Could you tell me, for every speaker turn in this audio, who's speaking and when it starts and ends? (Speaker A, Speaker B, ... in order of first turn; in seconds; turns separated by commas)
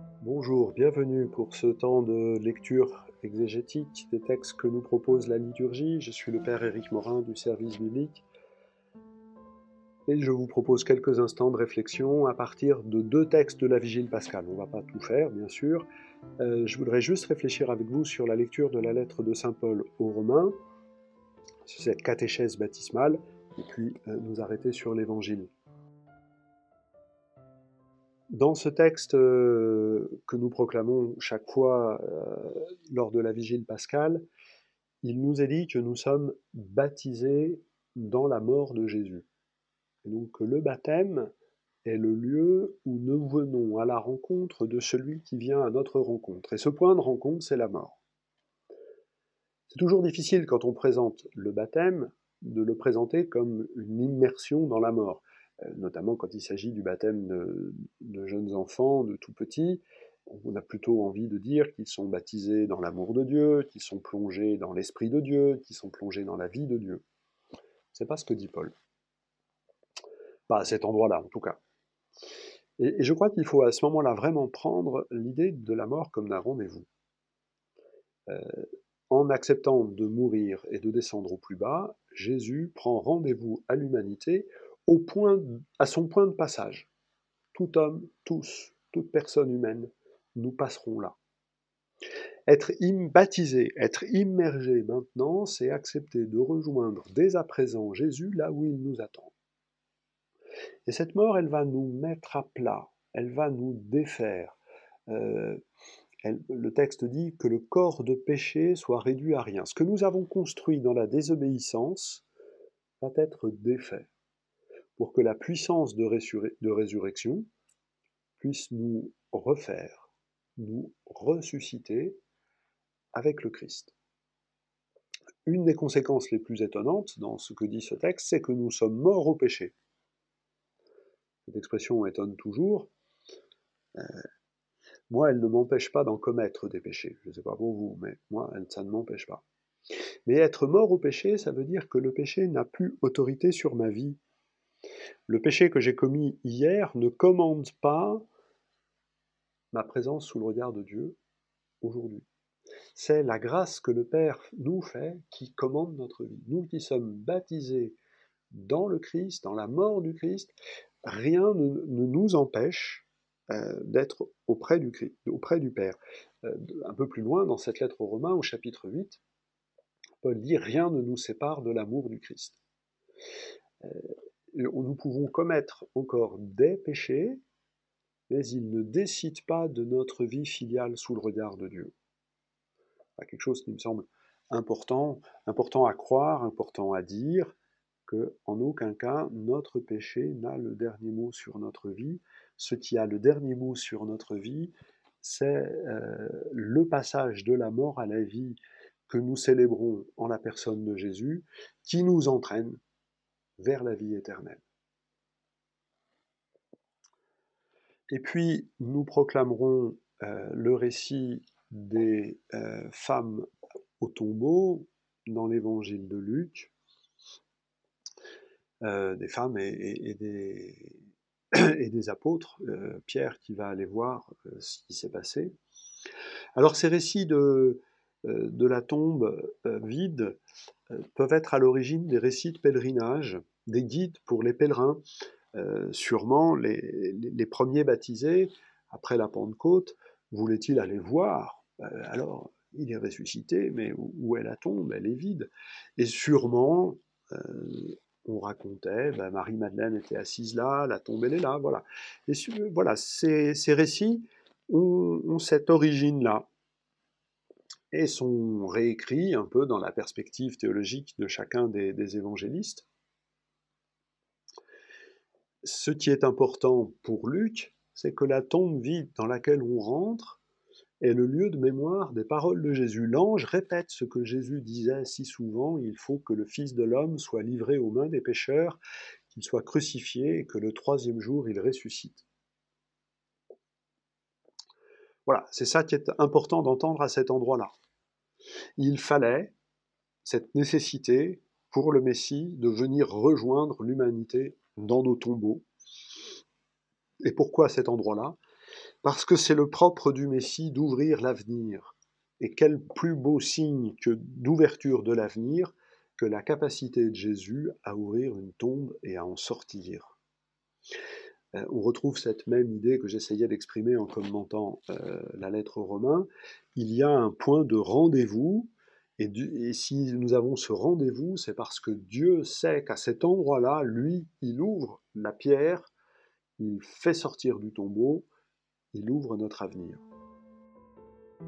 Speaker A: 0.2-8.3, Speaker A: 10.1-15.9, Speaker A: 16.4-20.6, Speaker A: 21.6-25.5, Speaker A: 28.3-34.3, Speaker A: 35.0-39.3, Speaker A: 40.0-41.3, Speaker A: 41.9-48.0, Speaker A: 49.7-67.0, Speaker A: 67.9-68.8, Speaker A: 70.5-71.6, Speaker A: 72.8-76.9, Speaker A: 78.3-86.9, Speaker A: 87.5-91.2, Speaker A: 92.5-99.3, Speaker A: 100.9-104.6, Speaker A: 105.1-105.6, Speaker A: 106.2-112.2, Speaker A: 113.0-114.1, Speaker A: 115.0-117.5, Speaker A: 118.4-122.2, Speaker A: 123.1-124.0, Speaker A: 125.5-129.7, Speaker A: 131.4-132.9, Speaker A: 134.0-134.2, Speaker A: 135.1-139.4, Speaker A: 140.3-144.2, Speaker A: 145.3-148.3, Speaker A: 149.7-151.2, Speaker A: 151.8-152.3, Speaker A: 152.9-158.0, Speaker A: 158.5-169.2, Speaker A: 170.2-172.6, Speaker A: 173.8-177.4, Speaker A: 178.3-181.9, Speaker A: 183.2-187.6, Speaker A: 188.1-202.8, Speaker A: 203.6-204.6, Speaker A: 208.1-213.5, Speaker A: 214.0-216.7, Speaker A: 218.8-225.6, Speaker A: 226.6-230.4, Speaker A: 230.9-235.0, Speaker A: 235.6-256.5, Speaker A: 257.9-262.9, Speaker A: 265.6-270.4, Speaker A: 271.0-282.2, Speaker A: 285.3-287.7, Speaker A: 288.8-289.6, Speaker A: 290.2-295.7, Speaker A: 297.2-298.4, Speaker A: 299.0-310.2, Speaker A: 311.5-325.9, Speaker A: 326.6-328.3, Speaker A: 328.9-330.0